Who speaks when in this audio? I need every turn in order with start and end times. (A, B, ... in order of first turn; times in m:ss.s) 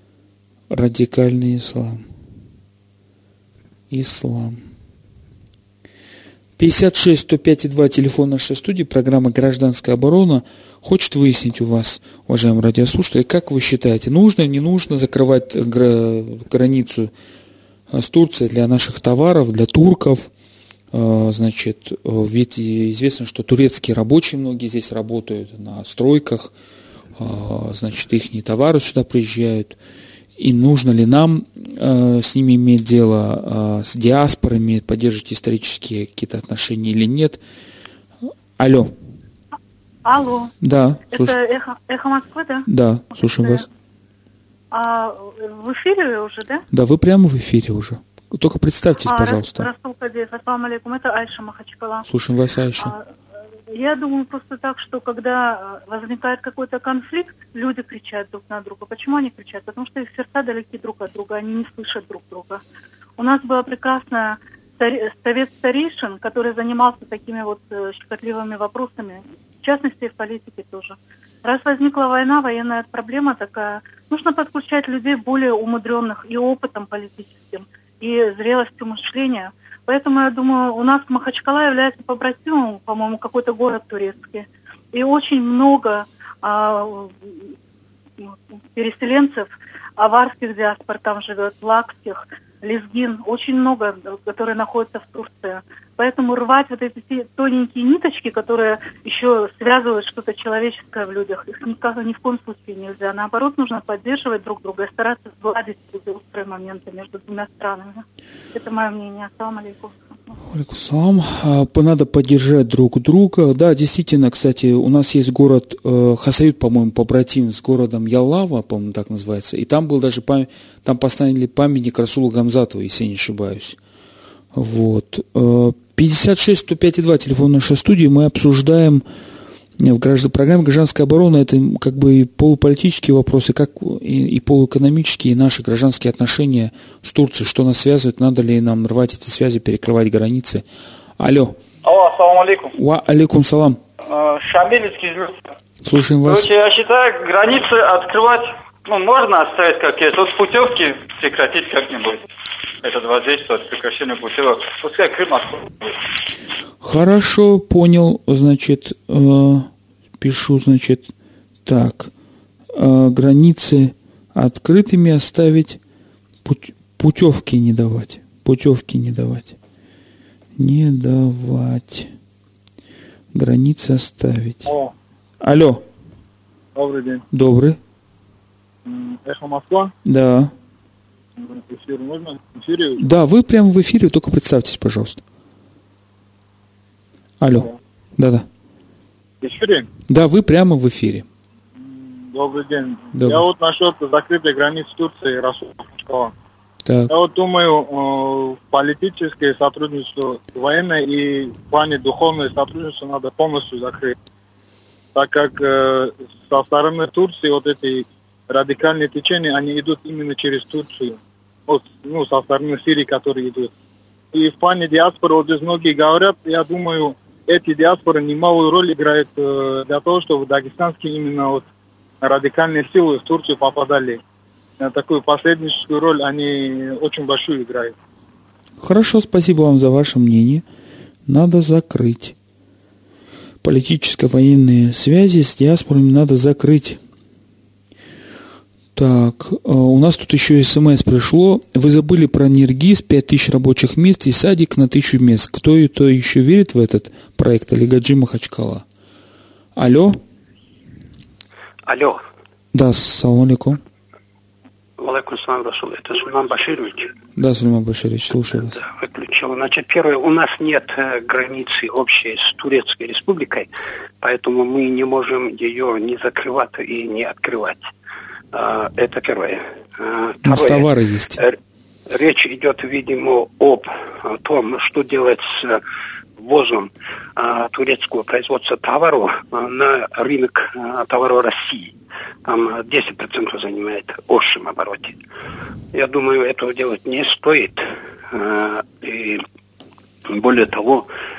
0:00.7-0:02.0 A
0:03.9-0:04.6 A
0:06.6-0:17.1 A
0:17.9-0:20.3 A
0:20.9-0:26.5 A
0:27.2-0:29.8 A
0:30.4-0:37.4 A
0:38.6-0:38.9 A
0:40.1-0:40.5 B
0:40.6-0:41.4 A
0:41.1-0:42.7 B
0:42.7-0:43.7 A
0:44.7-0:46.6 B
0:46.7-0:49.7 A
0:49.1-0:52.1 B
0:52.1-0:53.0 A
0:52.8-0:53.1 B
0:53.7-1:02.6 B
1:03.2-1:27.5 B
1:28.2-1:50.0 B
1:50.5-2:03.8 A
2:04.5-2:09.0 A
2:09.8-2:20.6 A
2:21.2-2:21.6 A
2:21.8-2:22.7 C
2:22.7-2:23.8 A
2:24.0-2:25.5 C
2:25.8-2:26.5 A
2:26.2-2:32.2 C
2:32.8-2:35.9 C
2:36.8-2:39.7 A
2:40.2-2:41.1 A
2:41.6-2:42.1 A
2:42.7-2:45.8 A
2:46.4-2:49.6 A
2:50.6-2:52.1 A
2:53.3-2:54.7 A
2:54.7-2:54.9 D
2:55.4-2:55.8 A
2:56.8-2:57.2 D
2:57.3-2:57.8 A
2:58.8-2:59.9 D
3:00.0-3:00.5 A
3:01.4-3:03.0 D
3:03.0-3:05.2 A
3:07.4-3:08.5 A
3:09.4-3:09.9 D
3:10.1-3:11.3 A
3:11.8-3:16.3 D
3:13.2-3:13.4 A
3:16.8-3:17.1 A
3:17.1-3:24.2 D
3:25.2-3:33.7 D
3:34.3-3:41.7 D
3:42.2-3:44.2 D
3:44.8-3:47.9 D
3:48.8-3:50.6 A
3:51.3-3:52.4 A
3:53.6-3:57.0 A
3:59.0-4:08.8 A
4:09.8-4:10.2 A
4:11.9-4:12.2 E
4:12.7-4:13.8 A
4:15.0-4:17.1 E
4:17.4-4:18.8 A
4:18.7-4:23.7 E
4:24.2-4:27.9 E
4:28.5-4:31.6 E
4:30.4-4:31.4 A
4:32.1-4:35.8 E
4:36.4-4:41.9 E
4:42.4-4:45.2 E
4:45.9-4:49.4 E
4:50.3-4:51.1 E